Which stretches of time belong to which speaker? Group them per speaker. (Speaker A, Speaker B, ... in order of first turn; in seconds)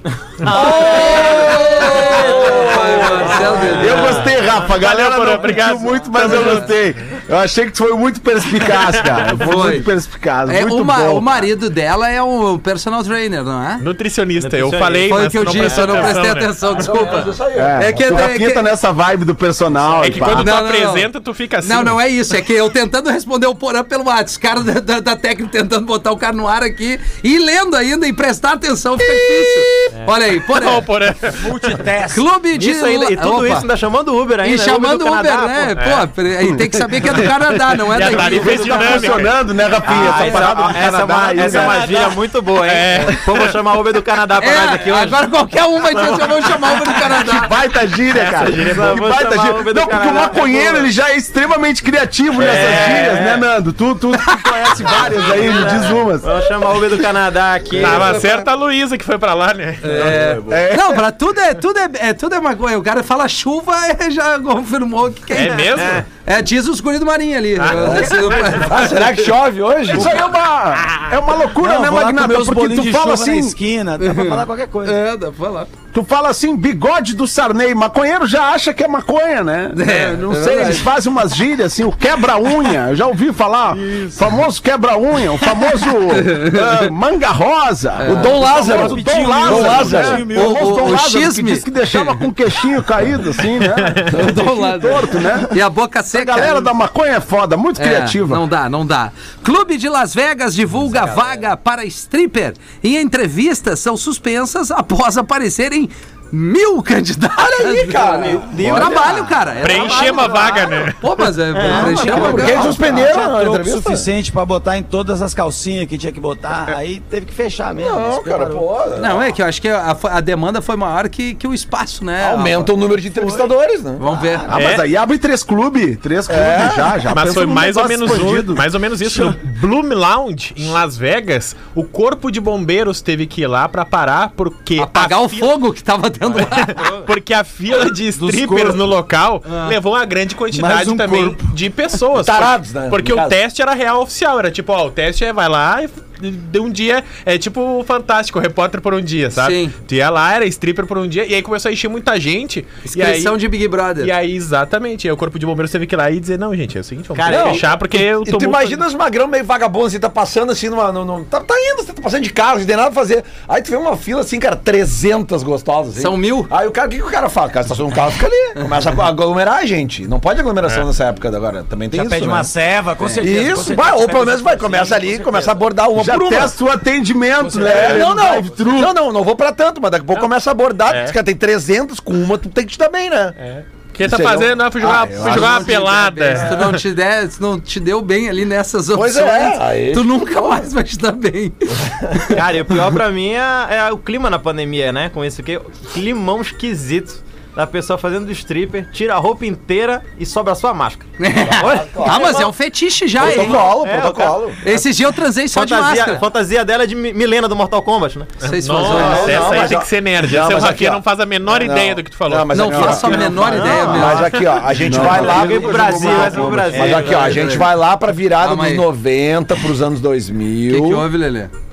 Speaker A: 0.4-4.3, 14.4-16.2, 32.5-35.8, 39.8-45.3, 45.9-47.0, 48.3-50.9, 52.3-53.5, 54.9-58.2, 65.8-66.0, 100.9-101.4, 108.2-110.8, 111.5-112.6, 136.3-137.1, 157.2-157.7, 192.3-202.5, 203.2-204.5, 205.5-208.3, 209.0-209.8, 213.4-214.3, 215.2-217.5
Speaker B: 0.5-4.3, 9.4-9.9, 10.5-13.8, 15.1-18.6, 20.4-21.1, 21.6-30.9, 32.1-33.7, 34.4-39.3, 44.4-47.5, 54.3-55.5, 57.8-58.4, 59.8-69.3, 74.0-75.7, 79.7-80.9, 85.5-86.9, 88.0-92.3, 94.1-96.7, 97.8-112.9, 119.0-122.7, 124.0-124.5, 134.8-136.8, 139.5-139.8, 149.4-149.7, 152.9-154.1, 166.0-166.5, 185.2-192.4, 201.2-203.7, 204.6-206.2, 208.4-209.5, 212.5-214.3, 217.1-217.7, 218.4-218.9, 220.7-221.5
Speaker C: 3.3-3.7, 16.7-18.3, 60.0-60.6, 67.7-70.2, 88.0-90.3, 107.4-109.0, 111.7-114.1, 117.8-119.3, 122.2-124.0, 126.3-127.1, 142.2-143.4, 157.3-172.5, 173.2-176.6, 177.5-183.4, 184.0-186.4, 188.9-190.1, 191.9-192.3, 201.4-202.4, 203.2-204.8, 208.8-221.1
Speaker D: 3.7-11.5, 17.6-20.5, 38.0-42.0, 47.1-56.3, 59.9-61.0, 69.9-73.5, 75.9-95.6, 96.1-98.4, 124.5-129.4, 175.9-179.0, 214.7-217.1
Speaker E: 3.9-6.9, 8.8-9.3, 13.8-16.6, 20.0-22.0, 30.4-31.8, 35.8-36.1, 37.9-39.4, 41.4-43.6, 48.1-48.6, 57.8-60.0, 65.3-66.0, 67.6-68.7, 88.6-90.6, 93.8-94.1, 109.6-111.0, 124.5-124.8, 127.1-135.5, 136.3-153.4, 154.0-158.8, 180.9-181.2, 183.4-186.8, 208.4-213.2, 214.1-214.6
Speaker F: 31.3-32.2, 71.6-75.0, 89.6-90.2, 109.0-109.3, 111.7-118.7, 123.2-123.5, 124.0-124.7, 138.1-138.8, 140.5-141.5, 171.9-175.6, 177.4-178.2, 214.9-215.4